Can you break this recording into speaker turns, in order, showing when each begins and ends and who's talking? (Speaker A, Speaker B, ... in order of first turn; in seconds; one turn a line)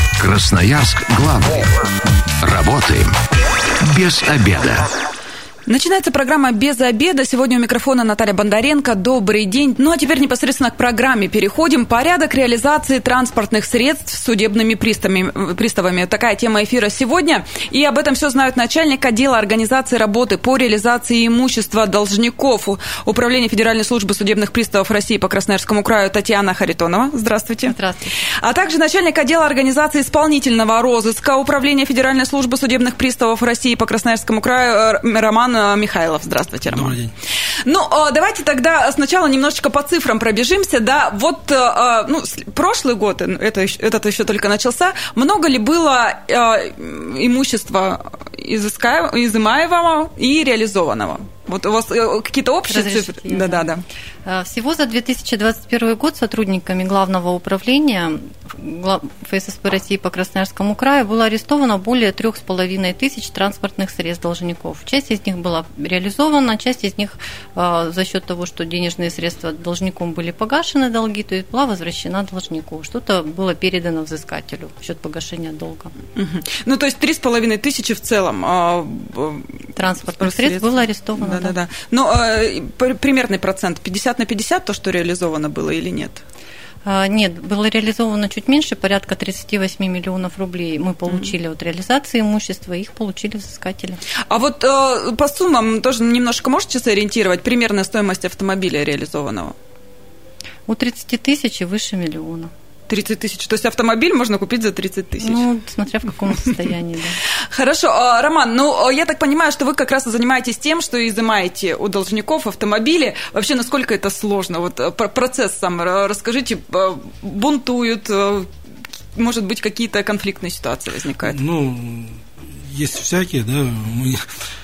Speaker A: 0.2-1.7
Speaker A: 2.4-3.1
Speaker A: 3.8-4.9
Speaker B: 5.7-27.7
Speaker C: 27.6-28.1
Speaker B: 28.4-37.0
Speaker D: 36.7-37.1
Speaker B: 37.6-53.8
Speaker C: 52.7-53.7
Speaker C: 54.2-75.9
Speaker B: 76.1-79.7
Speaker C: 79.8-81.5
Speaker B: 80.2-86.2
Speaker C: 86.8-94.0
Speaker B: 94.3-99.5
Speaker C: 100.7-102.5
Speaker B: 102.9-105.4
Speaker C: 105.2-107.2
Speaker B: 107.5-118.5
Speaker B: 119.1-121.4
Speaker D: 121.2-124.2